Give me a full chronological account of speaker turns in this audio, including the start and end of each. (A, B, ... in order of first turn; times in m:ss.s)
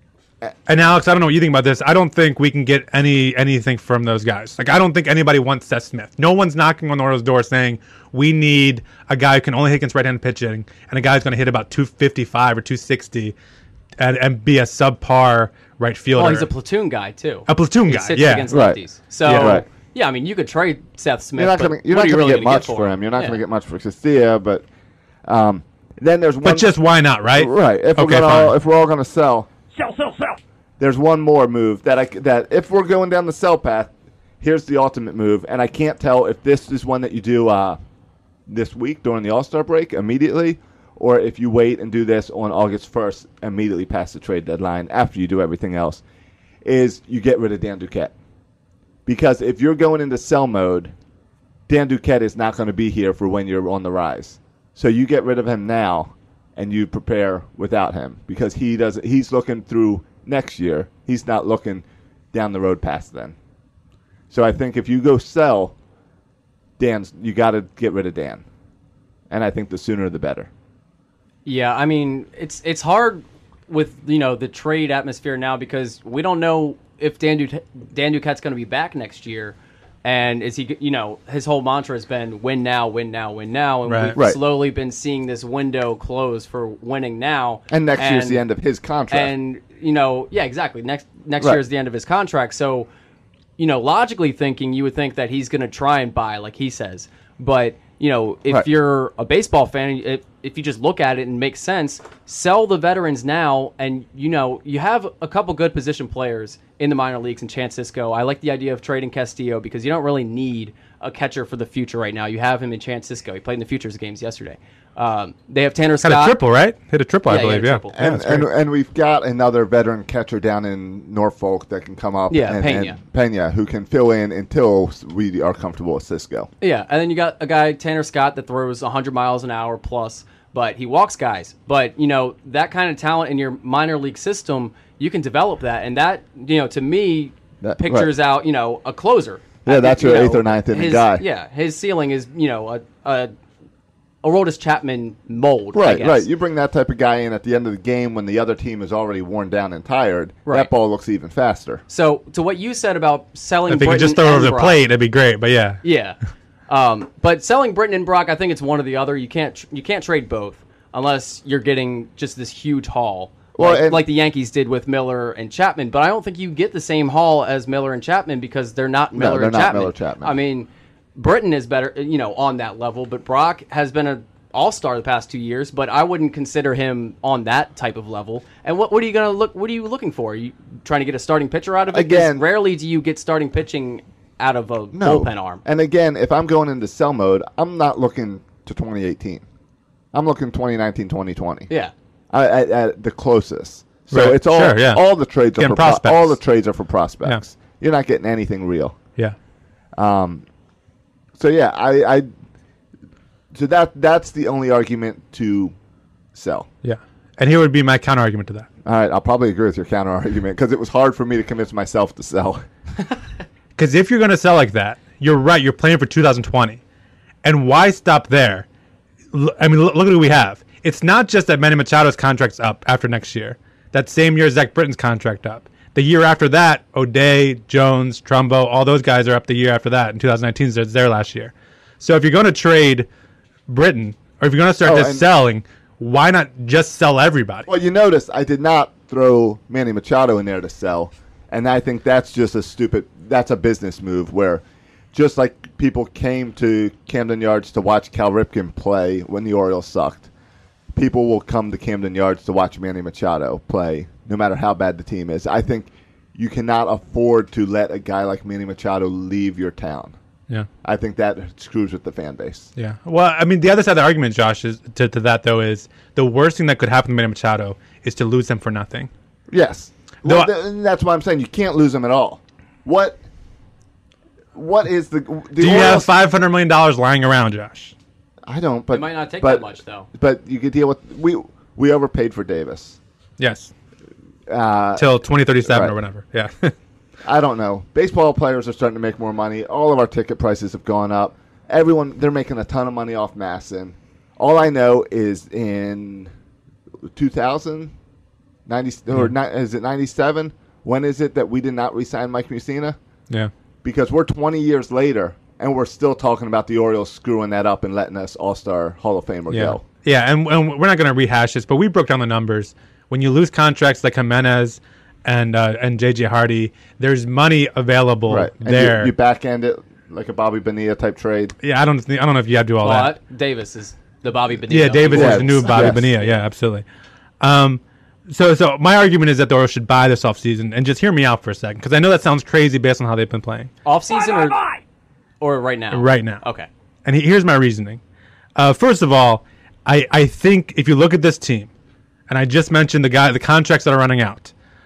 0:00.7-0:13.3 A
0:14.0-0:16.5 A
0:16.1-0:23.4 B
0:17.5-0:18.5 A
0:18.5-0:18.8 C
0:19.2-0:19.6 A
0:19.3-0:19.6 C
0:21.4-0:24.6 C
0:25.2-0:26.7 C
0:26.4-0:28.5 A
0:27.3-0:29.5 C
0:30.0-0:30.2 B
0:30.8-0:33.9 C
0:34.4-0:37.8 C
0:38.5-0:46.0 C
0:46.6-0:48.1 C
0:49.0-0:50.9 C
0:51.7-1:03.4 C
1:04.3-1:05.7 C
1:06.8-1:08.4 C
1:09.3-1:10.5 C
1:11.4-1:28.4 B
1:23.9-1:24.1 A
1:27.7-1:29.3 C
1:29.1-1:32.9 B
1:33.6-1:56.4 B
1:56.0-1:58.5 A
1:57.2-1:58.0 B
1:58.0-2:06.5 C
2:02.3-2:03.0 B
2:06.6-2:23.3 B
2:17.6-2:18.1 C
2:19.6-2:21.2 C
2:24.2-2:26.3 B
2:25.7-2:31.8 C
2:30.4-2:30.7 B
2:31.9-2:34.8 B
2:33.7-2:35.8 A
2:35.8-2:36.2 B
2:36.7-3:05.6 B
2:43.5-2:44.0 C
2:49.1-2:50.4 C
3:01.9-3:02.4 C
3:04.9-3:09.4 C
3:10.1-3:11.7 C
3:12.3-3:19.0 C
3:14.1-3:16.4 A
3:20.0-3:20.4 C
3:21.4-3:22.3 C
3:23.5-3:25.7 C
3:26.3-3:26.7 C
3:26.8-3:28.7 A
3:28.8-3:32.6 C
3:33.8-3:36.8 A
3:37.4-3:38.6 A
3:39.3-3:53.1 A
3:53.7-3:57.7 A
3:54.8-3:55.2 C
3:57.7-4:04.6 C
4:05.1-4:10.3 C
4:10.9-4:20.1 C
4:20.8-4:22.7 C
4:22.8-4:29.1 A
4:29.5-4:33.2 C
4:30.2-4:30.5 A
4:34.5-4:36.1 C
4:35.6-4:37.9 A
4:38.4-4:43.0 C
4:38.9-4:40.1 B
4:43.4-4:43.7 A
4:44.5-4:45.0 C
4:45.0-4:46.7 A
4:45.6-4:45.9 C
4:47.2-4:56.3 C
4:57.1-4:57.9 C
4:58.6-5:03.0 C
5:03.8-5:09.8 C
5:09.5-5:19.1 A
5:18.3-5:21.5 C
5:21.6-5:23.2 A
5:22.8-5:26.4 B
5:24.7-5:26.8 A
5:25.1-5:26.0 C
5:27.4-5:33.7 A
5:33.8-5:34.6 B
5:35.4-5:36.7 B
5:35.9-5:36.4 A
5:37.0-5:38.0 A
5:38.6-5:41.7 A
5:42.3-5:44.5 A